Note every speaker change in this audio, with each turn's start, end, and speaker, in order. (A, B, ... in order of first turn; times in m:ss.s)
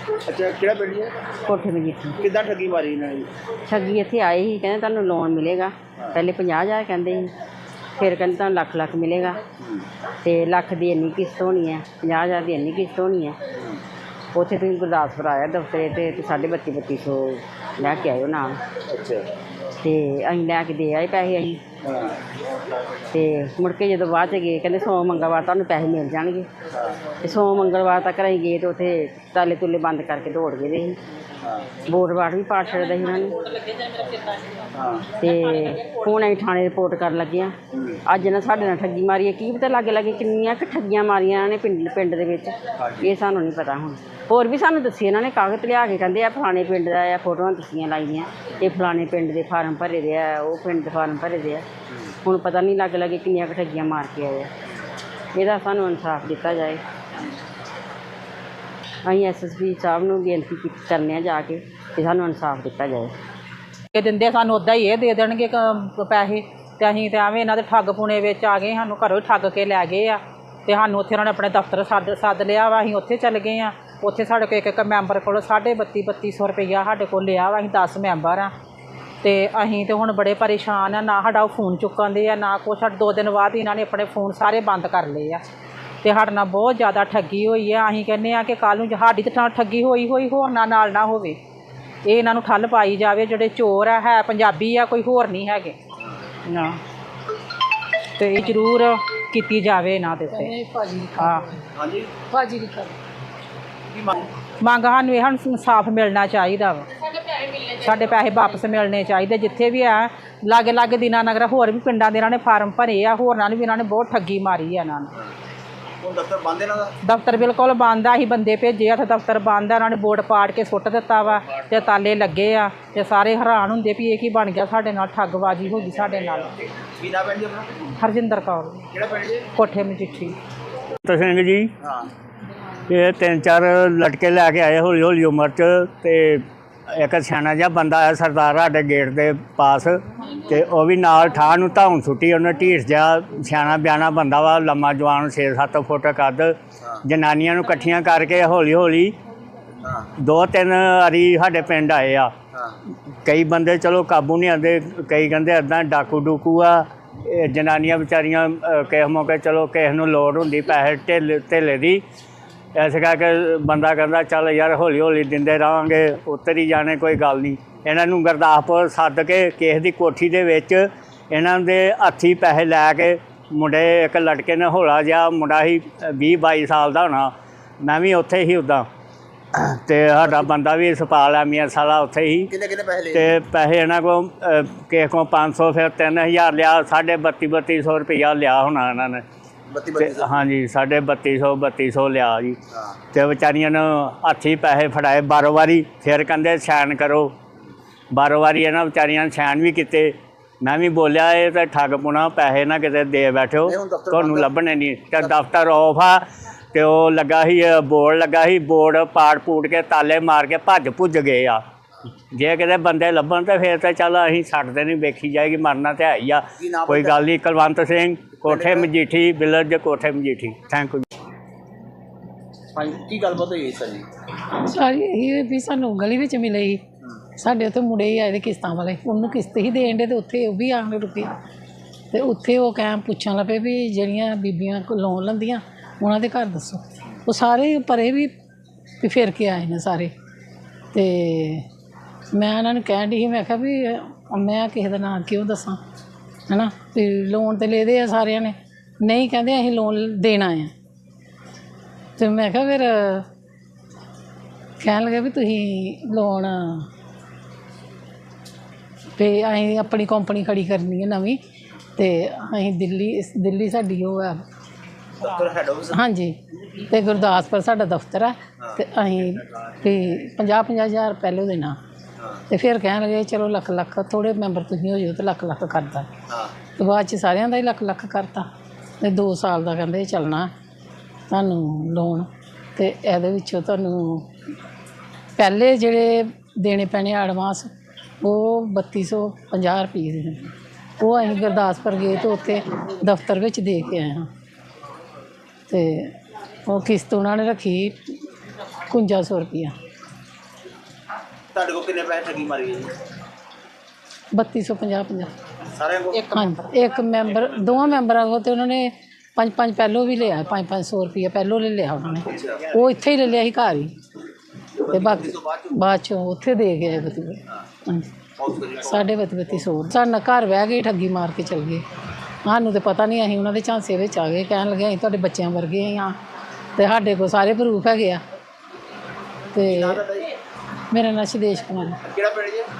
0:00.2-0:01.1 A
0:01.4-0:02.2 B
0:02.2-0:03.3 A
0:03.6-0:07.3 B
0:08.0-0:09.4 B
0:10.2-0:13.4 B
0:13.6-0:13.8 A
0:14.3-0:18.6 B
0:18.9-0:19.3 A
0:19.8-0:21.6 B
0:21.8-0:22.2 A
0:23.1-0:26.5 B
0:27.2-0:31.0 B
0:31.8-0:33.4 B
0:33.8-0:34.2 C
0:34.7-0:35.1 A
0:35.2-0:37.5 B
0:37.7-0:38.0 A
0:38.0-0:51.6 B
0:42.8-0:43.1 A
0:52.2-0:54.5 B
0:55.3-0:56.8 B
0:59.0-1:03.1 B
1:03.9-1:18.5 C
1:19.2-1:25.4 C
1:26.0-1:31.4 C
1:32.0-1:35.8 C
1:36.4-1:36.8 C
1:38.2-1:40.5 C
1:40.3-1:41.7 D
1:41.2-1:41.4 C
1:41.8-1:42.1 A
1:42.3-1:42.9 D
1:43.9-1:44.2 A
1:44.6-1:55.1 C
1:56.0-1:56.9 A
1:57.0-2:06.6 C
2:06.9-2:07.7 A
2:08.0-2:08.8 C
2:08.9-2:09.5 A
2:09.6-2:10.4 C
2:11.0-2:11.7 E
2:11.8-2:12.1 A
2:12.9-2:29.1 E
2:29.8-2:30.1 A
2:30.2-2:32.3 E
2:32.5-2:32.8 A
2:33.2-2:42.0 E
2:42.7-2:58.9 E
2:59.5-3:02.5 E
3:02.5-3:03.4 A
3:03.1-3:09.2 E
3:09.7-3:10.4 A
3:10.0-3:12.6 E
3:12.7-3:13.0 A
3:13.1-3:17.3 E
3:18.1-3:31.6 E
3:23.6-3:24.5 A
3:32.3-3:41.1 E
3:36.6-3:37.2 A
3:38.4-3:38.9 A
3:42.7-3:44.1 A
3:44.6-3:46.8 D
3:47.4-3:51.3 D
3:52.1-3:58.3 D
3:59.0-4:00.1 D
4:00.9-4:01.6 D
4:02.3-4:05.8 D
4:06.5-4:10.7 D
4:12.2-4:13.2 D
4:14.8-4:16.9 D
4:19.2-4:21.4 D
4:22.0-4:24.4 D
4:25.2-4:26.0 A
4:25.9-4:31.8 D
4:32.5-4:36.1 D
4:36.8-4:38.5 D
4:39.0-4:40.5 D
4:41.3-4:44.3 D
4:45.4-4:47.7 D
4:48.2-4:54.3 D
4:55.7-4:56.1 D
4:56.7-4:58.2 D
4:58.9-4:59.7 D
5:01.5-5:02.9 A
5:04.3-5:05.3 D
5:05.7-5:06.4 A
5:06.1-5:06.6 C
5:06.3-5:13.9 D
5:12.4-5:12.6 A
5:14.8-5:15.7 A
5:14.9-5:18.1 D
5:18.4-5:19.1 A
5:18.8-5:21.8 D
5:22.4-5:26.2 D
5:26.8-5:28.2 D
5:29.5-5:30.0 D
5:29.6-5:30.3 A
5:30.9-5:32.0 D
5:32.1-5:32.7 A